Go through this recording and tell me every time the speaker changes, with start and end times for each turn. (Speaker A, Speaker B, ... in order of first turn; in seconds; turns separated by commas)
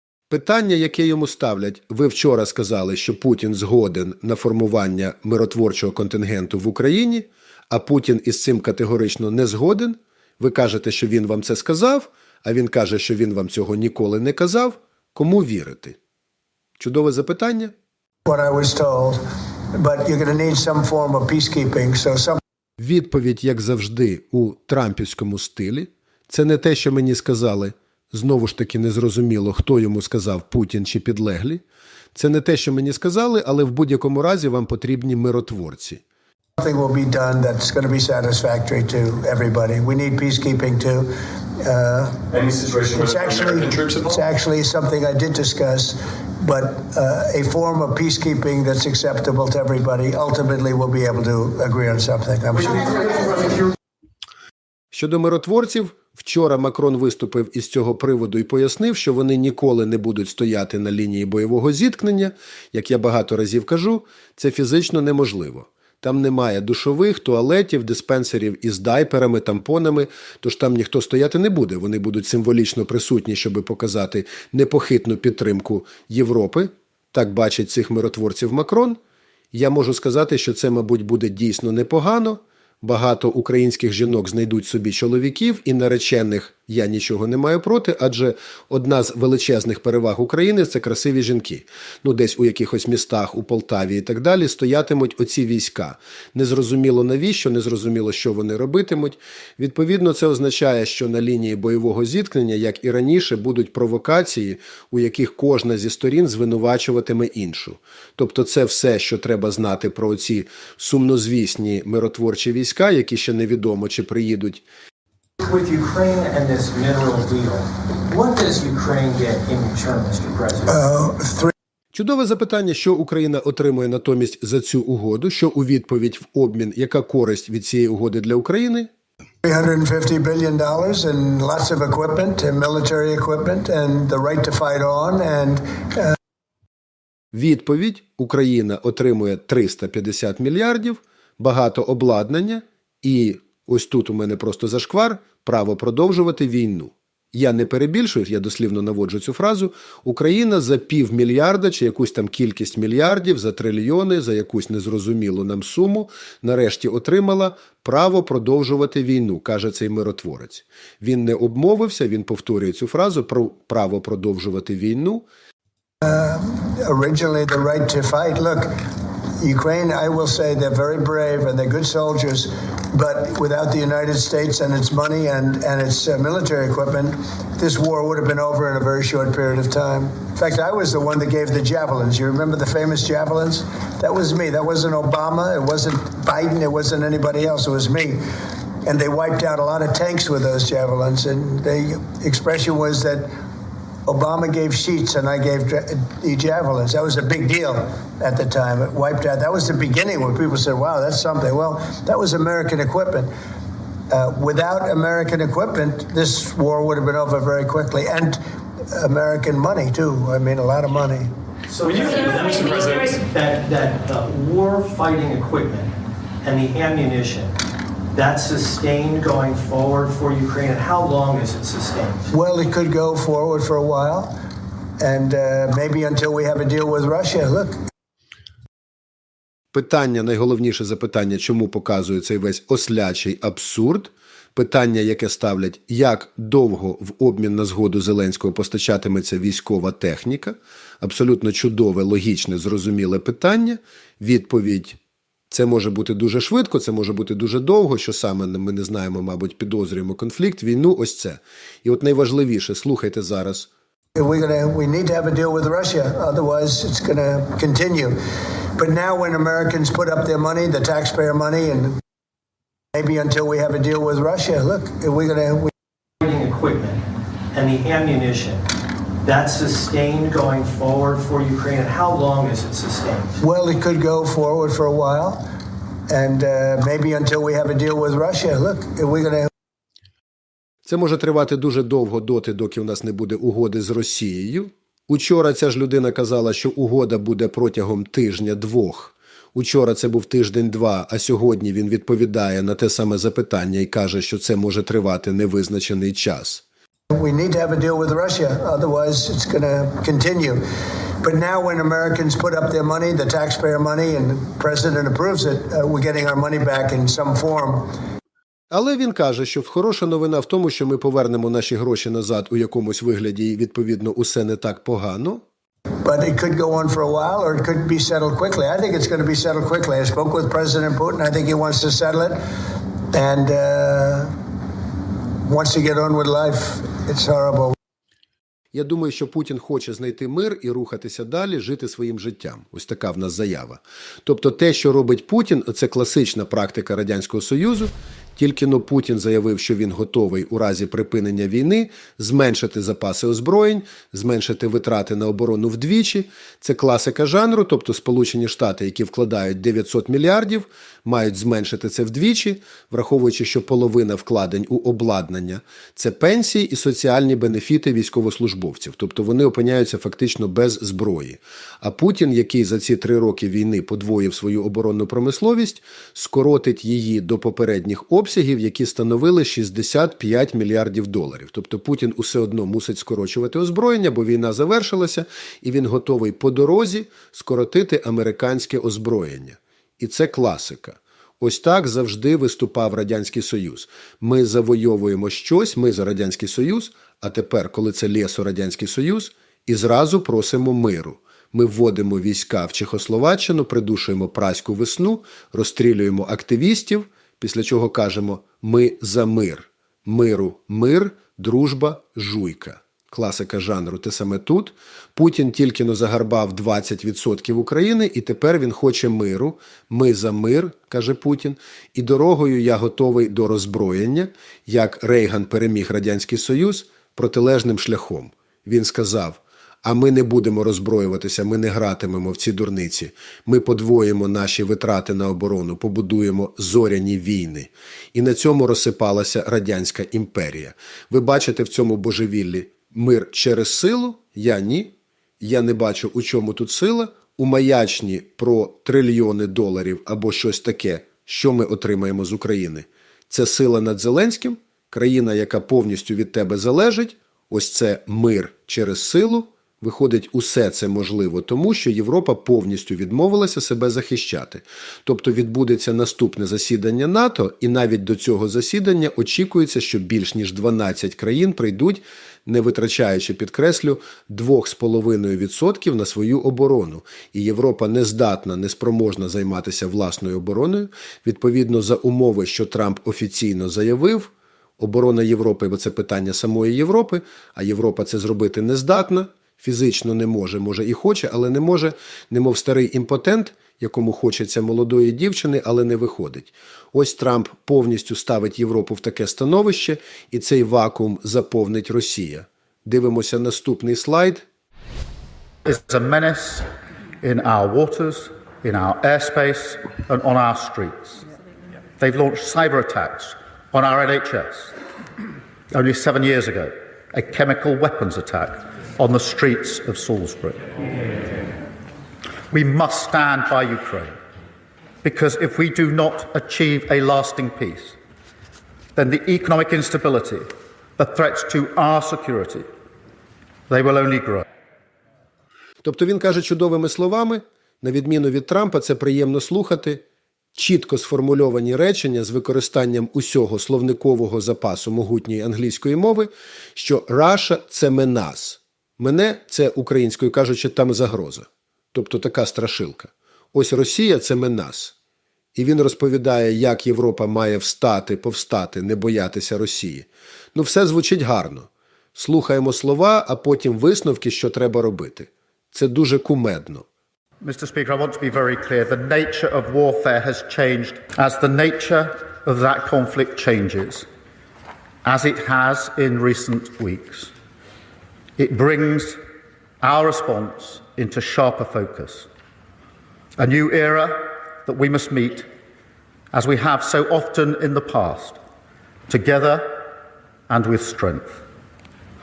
Speaker A: 0.3-16.0, Speaker A: 16.8-17.7, Speaker B: 18.3-19.2, Speaker B: 19.7-22.4, Speaker A: 22.8-31.6, Speaker A: 32.1-36.0, Speaker B: 36.6-42.3, Speaker C: 42.3-44.2, Speaker B: 43.0-53.6, Speaker A: 54.9-79.0, Speaker A: 79.5-114.6, Speaker D: 115.4-120.8, Speaker B: 120.7-121.5, Speaker A: 121.9-128.9, Speaker B: 129.4-136.2, Speaker A: 137.3-165.2, Speaker B: 166.0-168.8, Speaker B: 169.4-188.2, Speaker B: 188.8-193.3, Speaker B: 194.1-203.3, Speaker B: 204.1-211.3, Speaker D: 211.7-217.5, Speaker C: 211.8-213.2, Speaker D: 218.1-222.3, Speaker B: 222.3-224.4, Speaker B: 225.0-227.8, Speaker A: 229.7-245.0, Speaker A: 245.5-253.7, Speaker B: 254.2-258.2, Speaker B: 258.8-262.0, Speaker B: 262.9-265.7, Speaker D: 266.2-268.6, Speaker D: 269.2-273.4, Speaker B: 273.4-275.5, Speaker B: 276.1-279.5, Speaker A: 280.9-296.6, Speaker B: 297.1-300.6, Speaker B: 301.2-307.9, Speaker A: 308.7-315.4, Speaker B: 316.0-322.4, Speaker B: 323.1-324.3, Speaker B: 325.4-327.8, Speaker A: 328.7-494.4, Speaker E: 495.6-496.7, Speaker E: 497.2-501.2, Speaker E: 502.0-504.7, Speaker E: 505.7-510.7, Speaker E: 512.5-514.2, Speaker E: 515.0-518.0, Speaker E: 519.0-522.7, Speaker E: 523.7-524.5, Speaker A: 525.8-530.0, Speaker A: 530.5-544.9, Speaker A: 545.5-556.9, Speaker E: 557.4-564.1, Speaker E: 565.0-567.3, Speaker E: 568.4-569.2, Speaker E: 569.8-572.3, Speaker E: 573.4-575.5, Speaker E: 576.3-578.4, Speaker E: 579.1-579.9, Speaker E: 580.5-581.4